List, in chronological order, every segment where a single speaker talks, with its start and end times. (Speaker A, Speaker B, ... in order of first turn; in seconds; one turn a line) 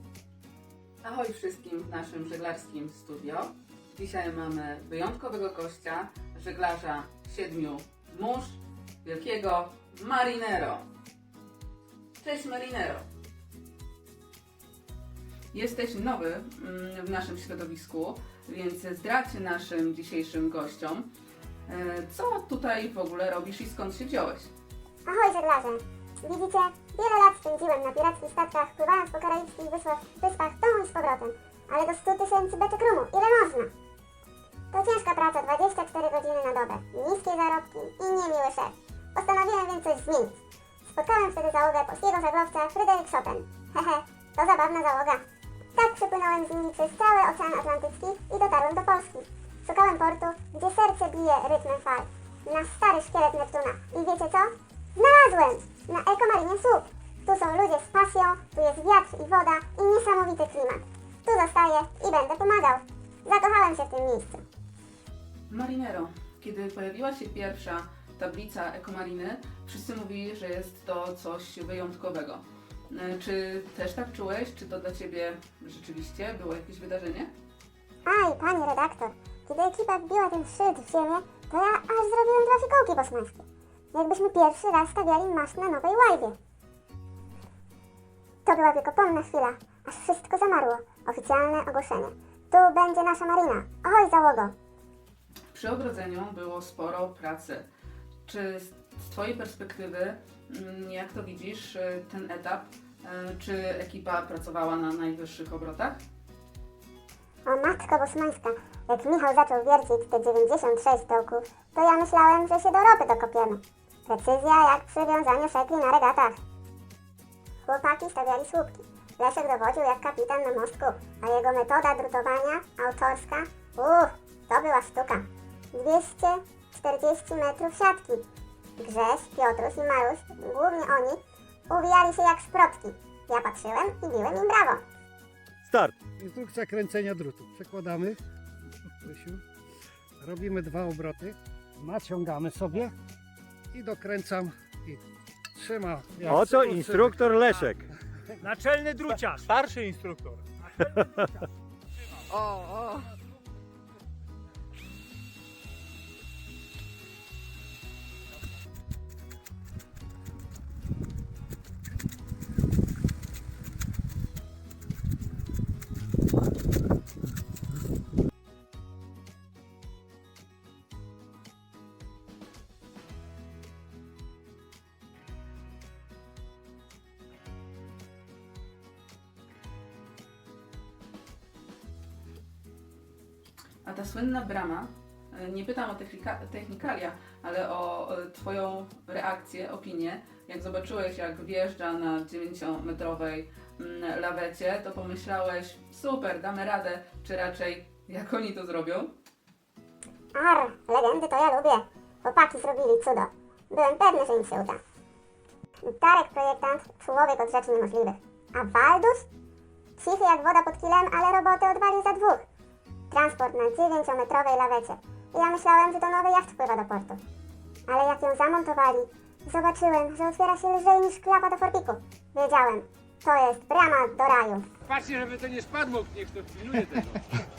Speaker A: 1.0-10.8
Speaker A: 12.2-13.0
Speaker A: 15.5-21.1
Speaker A: 21.7-24.5
Speaker B: 25.1-33.7
Speaker B: 34.7-45.2
Speaker B: 45.8-64.4
Speaker A: 65.5-77.3
Speaker B: 78.0-86.4
Speaker B: 88.5-94.5
Speaker A: 95.5-97.7
Speaker A: 98.2-106.0
Speaker B: 107.5-116.4
Speaker B: 117.7-128.2
Speaker B: 128.8-131.2
Speaker B: 131.7-134.8
Speaker C: 135.7-135.9
Speaker D: 136.2-138.2
Speaker D: 139.0-139.4
Speaker D: 140.2-142.9
Speaker D: 143.7-145.0
Speaker D: 145.6-147.2
Speaker C: 146.1-147.9
Speaker D: 148.4-149.4
Speaker E: 148.6-148.9
Speaker E: 149.5-150.5
Speaker C: 150.9-151.2
Speaker A: 152.3-153.1
Speaker A: 183.8-199.1
Speaker B: 200.3-204.8
Speaker B: 205.8-209.3
Speaker B: 210.0-212.4
Speaker B: 213.1-217.2
Speaker B: 217.9-224.7
Speaker E: 224.9-227.1